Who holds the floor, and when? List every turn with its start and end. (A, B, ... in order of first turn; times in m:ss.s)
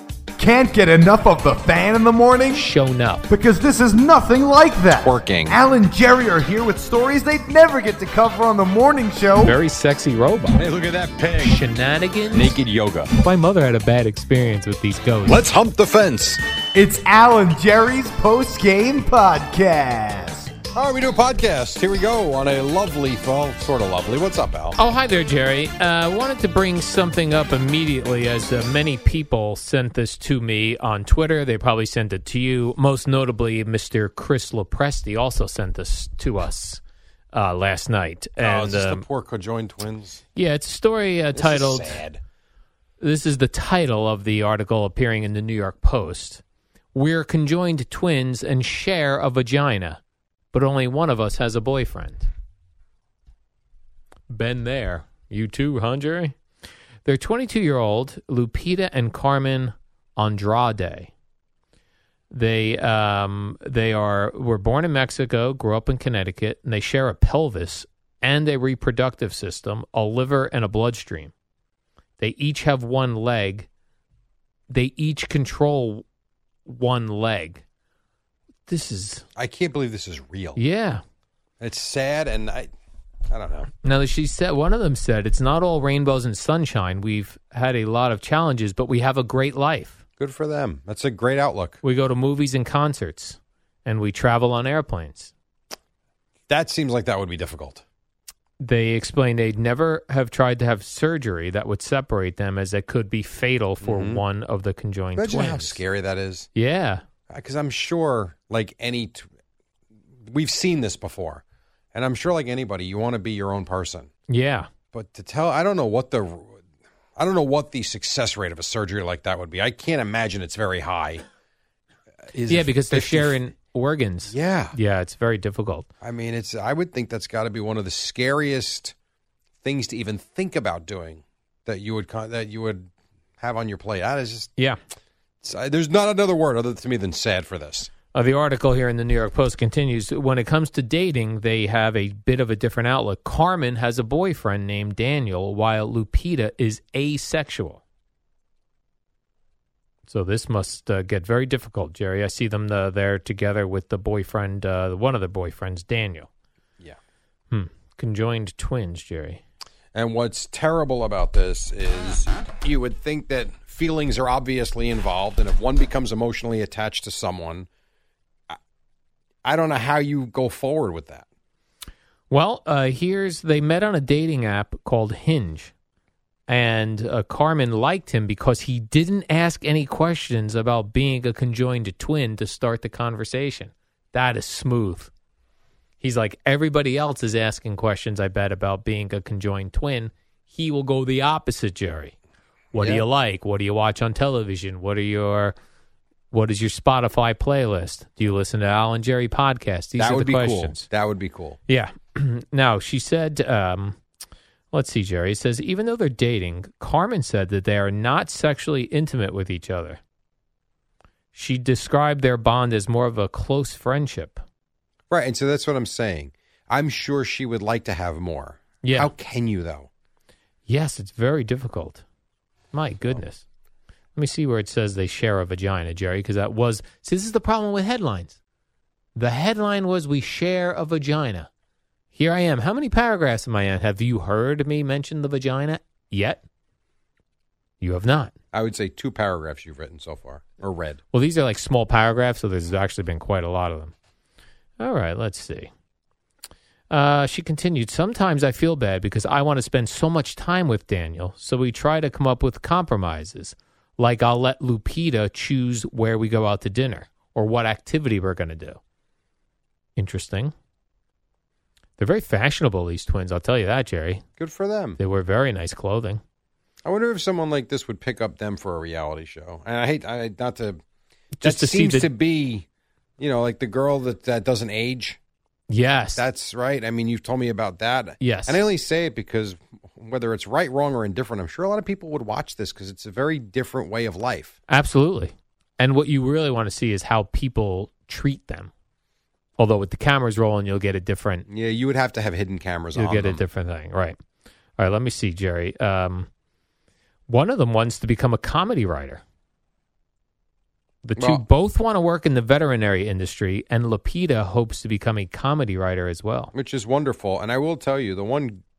0:00.4-0:02.7 A
0:02.5-0:03.2 B
0:03.3-0:09.6 A
0:05.0-0:05.6 C
0:09.4-0:10.6 B
0:10.5-0:11.6 C
0:11.4-0:12.6 B
0:12.3-0:13.1 C
0:13.2-0:15.5 B
0:15.3-0:16.4 C
0:16.8-0:20.5 A
0:20.7-0:24.8 C
0:24.8-0:36.8 B
0:37.3-0:39.0 B
0:38.4-0:40.2 C
0:40.4-0:42.0 B
0:41.4-0:42.2 C
0:43.0-0:46.4 B
0:46.9-0:50.0 B
0:50.5-0:52.3 B
0:54.3-0:56.4 B
0:57.0-1:01.1 B
1:02.3-1:11.3 B
1:12.2-1:13.7 B
1:14.7-1:16.0 B
1:16.7-1:17.6 B
1:18.7-1:19.3 B
1:19.4-1:20.6 C
1:20.6-1:21.0 B
1:21.6-1:22.7 C
1:23.3-1:23.7 C
1:23.8-1:30.0 B
1:30.2-1:31.8 C
1:31.8-1:35.3 B
1:36.5-1:37.8 C
1:38.6-1:45.8 B
1:43.8-1:44.2 C
1:45.2-1:46.5 C
1:46.6-1:47.0 B
1:47.3-1:49.3 C
1:50.2-1:51.4 C
1:51.9-1:54.1 C
1:54.3-1:54.7 B
1:54.9-1:56.6 C
1:57.2-2:01.2 C
2:02.3-2:03.4 C
2:02.5-2:05.9 B
2:04.3-2:04.8 C
2:06.0-2:09.0 C
2:09.6-2:14.5 C
2:15.4-2:17.9 C
2:18.1-2:27.8 B
2:30.1-2:36.3 B
2:37.5-2:39.4 B
2:39.9-2:47.7 C
2:49.4-2:51.2 C
2:52.3-2:55.7 B
2:56.5-3:05.1 B
3:06.0-3:12.1 B
3:12.7-3:15.6 B
3:12.8-3:13.0 C
3:16.3-3:20.9 B
3:20.0-3:21.6 C
3:21.7-3:24.0 B
3:24.7-3:30.0 B
3:31.3-3:34.4 B
3:35.1-3:39.9 C
3:38.8-3:39.1 B
3:40.7-3:42.0 B
3:42.7-3:43.4 B
3:44.2-3:48.4 B
3:49.2-3:51.5 B
3:52.1-3:56.4 B
3:57.8-3:58.3 B
3:58.5-4:01.0 C
4:01.1-4:03.9 B
4:04.8-4:05.7 B
4:06.9-4:18.8 B
4:20.0-4:20.5 B
4:22.0-4:24.2 B
4:24.4-4:25.0 C
4:25.0-4:26.2 B
4:26.8-4:30.8 C
4:31.4-4:32.1 B
4:31.4-4:32.7 C
4:33.2-4:35.2 C
4:35.7-4:36.2 B
4:36.2-4:44.6 C
4:38.2-4:38.6 B
4:44.7-4:48.7 B
4:49.6-4:51.5 B
4:51.5-4:53.4 C
4:53.0-4:54.2 B
4:54.8-4:56.3 B
4:57.3-4:59.2 B
5:01.0-5:06.5 B
5:01.2-5:01.4 C
5:06.5-5:08.6 C